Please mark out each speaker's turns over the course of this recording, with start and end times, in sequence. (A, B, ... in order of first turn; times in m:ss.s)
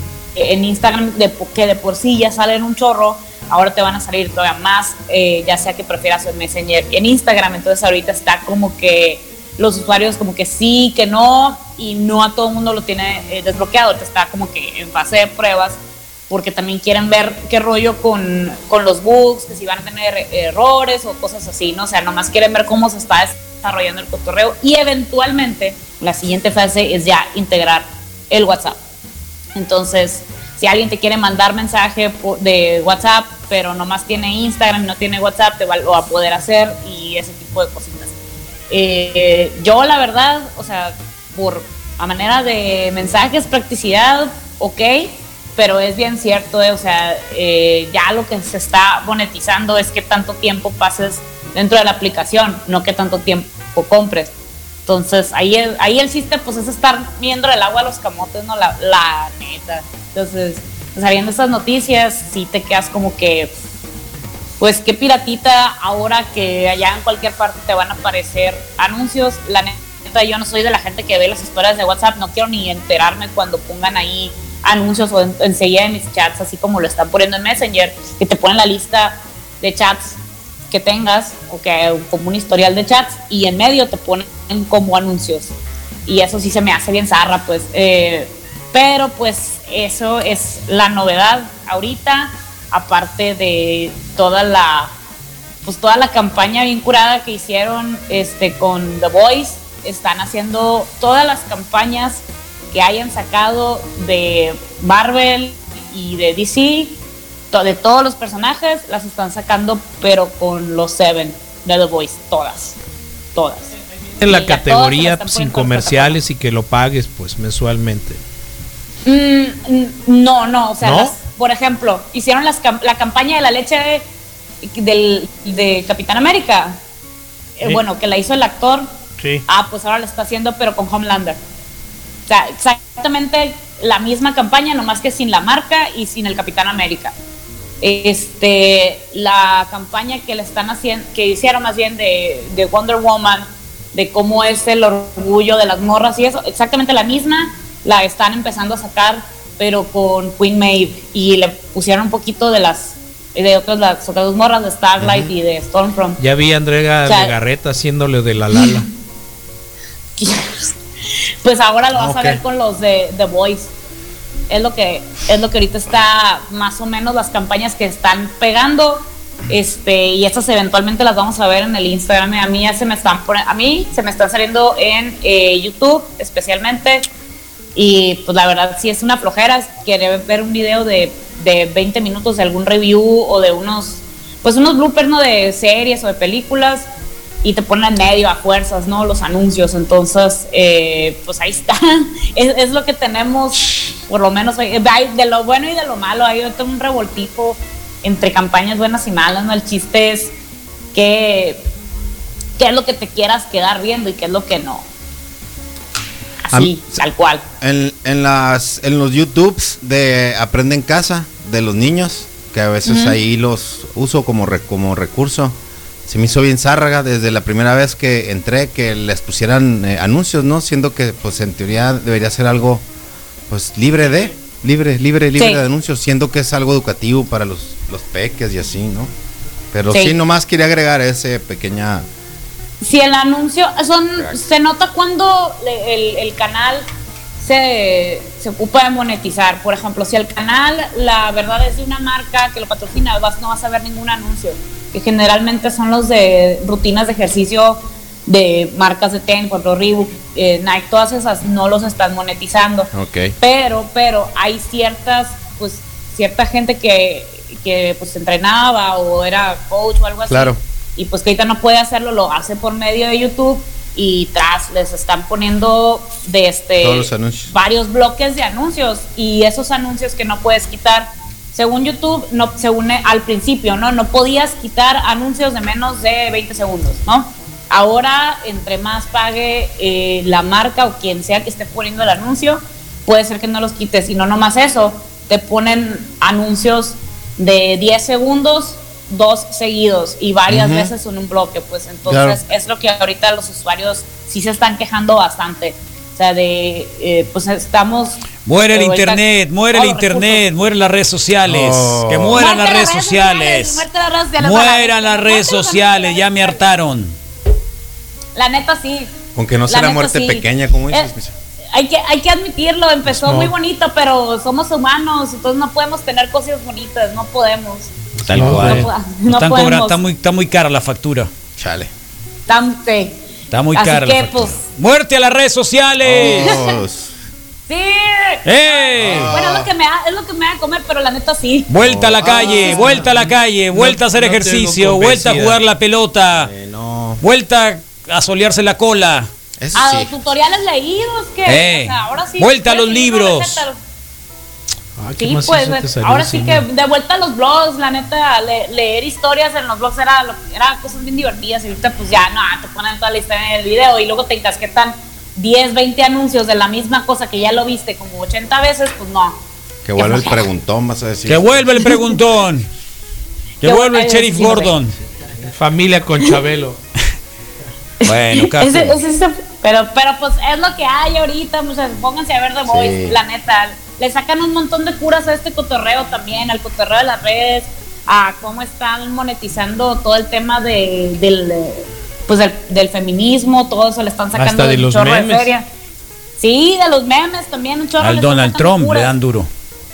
0:00.4-0:28.8 A
0:29.6-0:38.2 A
0:38.7-0:54.4 A
0:54.9-1:03.5 A
1:04.6-1:20.2 A
1:20.7-1:25.6 A
1:26.1-1:34.9 A
1:35.6-1:52.8 A
1:53.4-1:53.7 A
1:54.2-1:58.2 B
1:54.2-1:56.2 A
1:59.0-2:04.1 A
2:00.8-2:01.2 B
2:04.6-2:06.8 A
2:07.6-2:08.9 A
2:09.5-2:11.4 A
2:12.3-2:17.1 A
2:17.8-2:36.2 A
2:35.0-2:35.3 C
2:36.2-2:38.9 B
2:37.0-2:37.3 A
2:40.2-2:40.7 A
2:41.4-2:43.7 A
2:41.9-2:42.4 C
2:44.5-2:57.1 A
2:57.8-3:06.9 A
3:07.4-3:20.4 A
3:20.9-3:21.7 A
3:22.6-3:24.9 A
3:26.5-3:27.4 A
3:26.5-3:27.0 C
3:27.6-3:35.6 C
3:32.8-3:33.2 A
3:36.1-3:42.8 C
3:43.5-3:49.1 C
3:45.4-3:45.6 A
3:49.7-3:52.1 C
3:49.9-3:50.2 A
3:52.8-3:56.9 A
3:57.4-5:00.4 A
4:12.9-4:13.3 C
4:20.3-4:20.6 C
4:26.8-4:27.5 C
4:50.5-4:50.9 C
4:52.1-4:52.4 C
4:58.4-5:03.9 D
5:01.5-5:02.5 C
5:02.4-5:06.7 A
5:04.4-5:07.2 D
5:08.4-5:09.1 A
5:09.4-5:11.3 C
5:09.7-5:11.1 A
5:11.7-5:17.9 A
5:13.1-5:13.5 B
5:18.2-5:18.9 B
5:18.2-5:21.3 D
5:18.5-5:20.0 A
5:21.6-5:21.9 C
5:22.5-5:24.6 A
5:23.5-5:26.6 D
5:26.0-5:27.1 C
5:26.2-5:26.8 A
5:27.7-5:31.7 A
5:28.4-5:29.4 D
5:29.0-5:29.7 C
5:31.7-5:36.5 D
5:31.8-5:33.1 C
5:32.3-5:32.6 A
5:32.6-5:35.6 B
5:36.3-5:37.2 C
5:37.2-5:39.3 D
5:39.6-5:40.2 C
5:39.8-5:43.8 A
5:41.5-5:43.6 D
5:45.0-5:46.6 B
5:45.2-5:59.4 A
5:59.8-6:01.5 C
6:00.0-6:00.4 A
6:01.3-6:02.7 D
6:03.6-6:05.0 D
6:03.6-6:04.8 A
6:05.5-6:06.8 B
6:08.0-6:25.7 A
6:08.0-6:09.0 D
6:12.7-6:13.2 C
6:24.3-6:25.5 B
6:26.4-6:29.1 A
6:28.0-6:29.5 D